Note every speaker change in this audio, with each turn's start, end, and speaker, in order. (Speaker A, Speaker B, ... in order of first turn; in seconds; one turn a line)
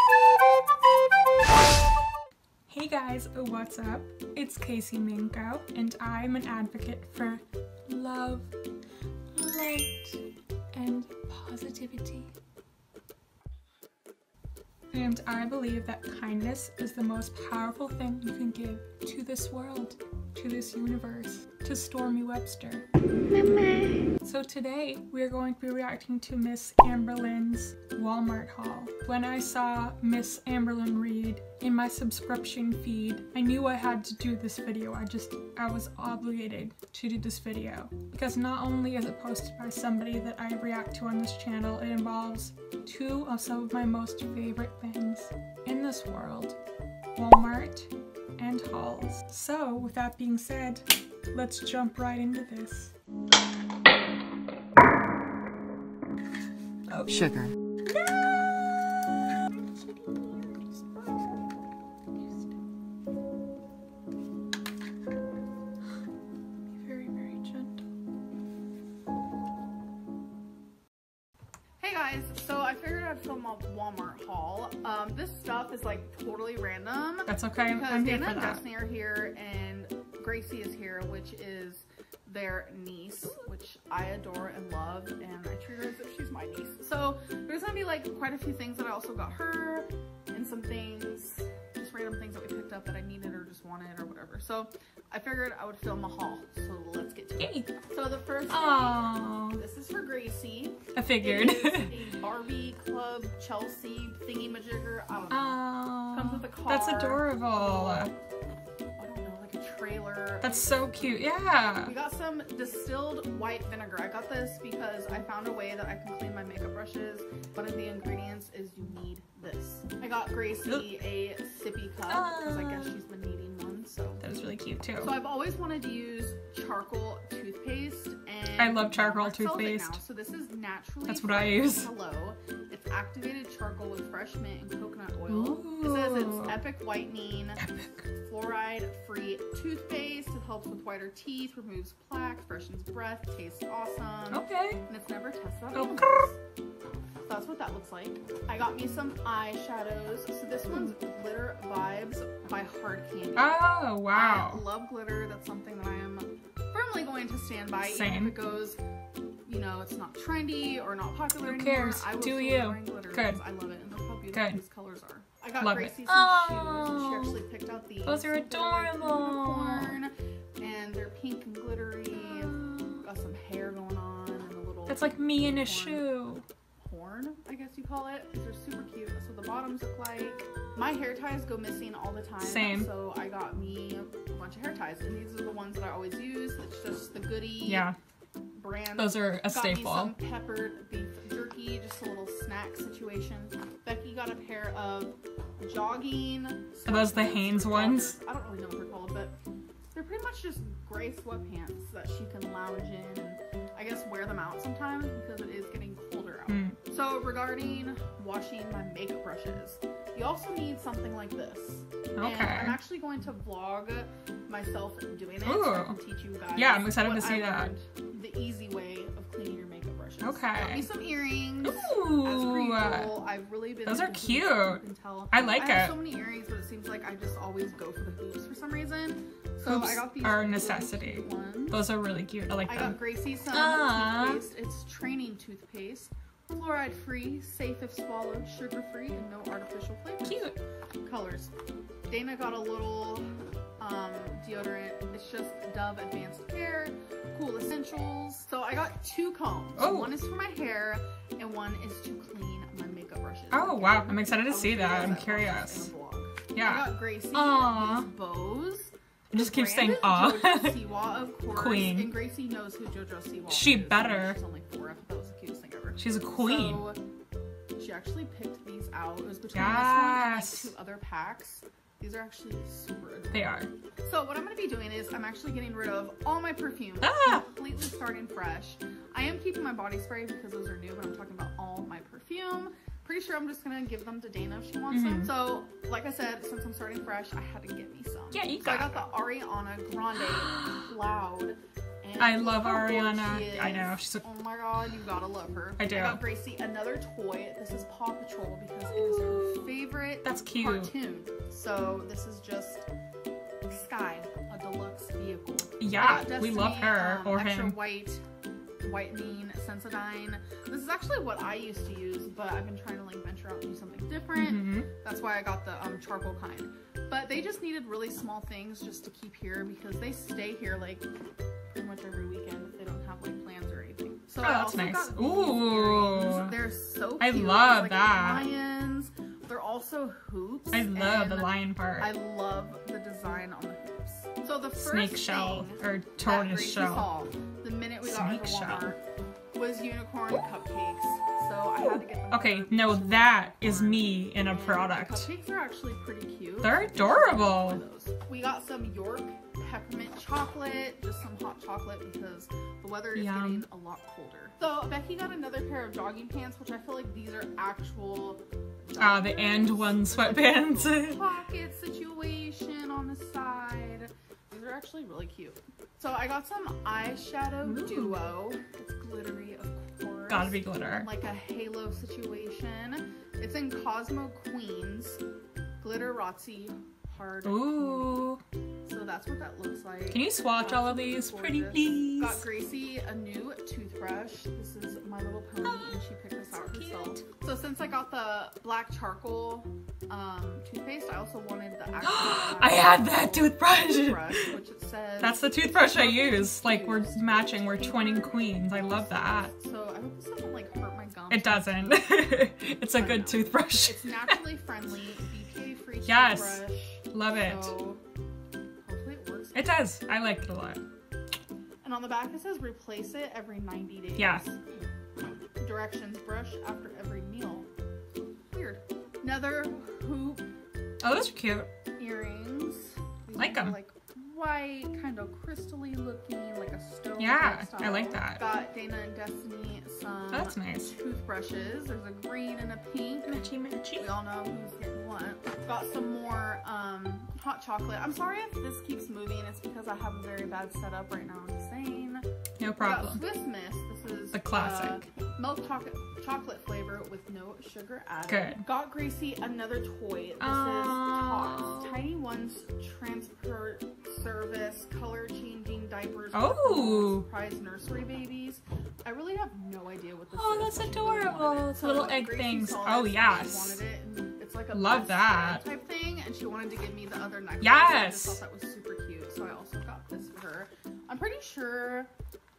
Speaker A: 2.7-8.5
Speaker A: 9.3-10.2
Speaker A: 10.7-12.3
Speaker A: 14.9-22.9
Speaker A: 24.2-46.6
Speaker A: 47.1-52.9
Speaker A: 56.9-57.3
Speaker A: 59.8-61.3
Speaker A: 66.7-67.8
Speaker B: 71.8-108.1
Speaker A: 77.3-78.6
Speaker A: 97.4-97.7
Speaker A: 98.5-99.6
Speaker A: 100.9-102.0
Speaker A: 105.3-108.1
Speaker B: 109.0-124.2
Speaker A: 110.4-111.9
Speaker A: 122.1-123.0
Speaker A: 124.2-125.2
Speaker B: 125.0-137.6
Speaker A: 128.6-130.0
Speaker A: 131.1-131.9
Speaker A: 135.3-136.6
Speaker A: 137.6-138.0
Speaker B: 138.2-146.3
Speaker A: 144.3-144.8
Speaker A: 145.7-146.3
Speaker B: 147.2-153.6
Speaker A: 153.3-154.6
Speaker B: 154.1-158.8
Speaker A: 157.8-158.4
Speaker B: 159.4-176.1
Speaker A: 161.4-163.4
Speaker A: 164.3-164.6
Speaker A: 165.6-167.4
Speaker A: 168.0-170.0
Speaker A: 172.1-173.0
Speaker A: 174.9-176.4
Speaker B: 176.8-187.9
Speaker A: 182.4-182.9
Speaker A: 187.7-188.0
Speaker B: 188.5-199.3
Speaker A: 188.9-190.2
Speaker A: 196.8-198.1
Speaker B: 199.9-231.8
Speaker A: 206.5-206.8
Speaker A: 212.2-212.8
Speaker A: 215.4-216.0
Speaker A: 216.5-217.7
Speaker A: 220.2-220.9
Speaker A: 221.6-223.2
Speaker A: 223.8-226.0
Speaker A: 229.6-234.4
Speaker B: 232.6-240.5
Speaker A: 240.2-240.6
Speaker B: 241.0-241.5
Speaker B: 242.1-243.3
Speaker B: 243.8-267.0
Speaker A: 249.8-250.2
Speaker A: 253.5-255.9
Speaker A: 256.5-258.1
Speaker A: 259.3-260.9
Speaker A: 261.5-262.1
Speaker A: 263.5-264.4
Speaker A: 266.0-266.9
Speaker B: 267.8-302.9
Speaker A: 269.5-270.7
Speaker A: 273.3-273.7
Speaker A: 277.0-277.4
Speaker A: 284.9-285.3
Speaker A: 288.3-289.0
Speaker A: 290.5-290.8
Speaker A: 292.2-294.2
Speaker A: 295.8-296.2
Speaker A: 298.9-299.7
Speaker A: 300.2-300.9
Speaker B: 303.7-308.2
Speaker A: 305.8-307.8
Speaker B: 308.8-321.1
Speaker A: 314.3-314.9
Speaker B: 321.7-339.0
Speaker A: 324.4-326.6
Speaker A: 327.2-328.5
Speaker A: 330.7-332.1
Speaker A: 334.8-337.1
Speaker A: 338.0-338.9
Speaker B: 339.5-375.2
Speaker A: 342.3-345.3
Speaker A: 346.6-347.8
Speaker A: 353.1-353.6
Speaker A: 359.0-361.2
Speaker A: 367.6-368.3
Speaker A: 370.3-371.1
Speaker B: 375.8-378.3
Speaker A: 377.4-378.4
Speaker B: 378.9-402.2
Speaker A: 380.1-382.4
Speaker A: 385.6-387.2
Speaker A: 392.0-394.5
Speaker A: 395.2-399.5
Speaker A: 401.3-404.4
Speaker B: 402.9-408.0
Speaker A: 406.0-407.7
Speaker B: 408.8-409.6
Speaker A: 409.5-410.8
Speaker B: 411.8-414.5
Speaker A: 414.1-414.4
Speaker B: 415.6-417.7
Speaker B: 418.5-420.4
Speaker A: 421.0-421.7
Speaker B: 422.0-442.2
Speaker A: 423.4-423.8
Speaker A: 427.2-428.5
Speaker A: 430.3-430.9
Speaker A: 433.3-434.1
Speaker A: 442.6-443.2
Speaker B: 442.8-472.1
Speaker A: 444.3-445.0
Speaker A: 448.3-448.6
Speaker A: 450.4-452.0
Speaker A: 456.3-457.2
Speaker A: 460.3-463.8
Speaker A: 464.7-465.6
Speaker A: 467.6-468.4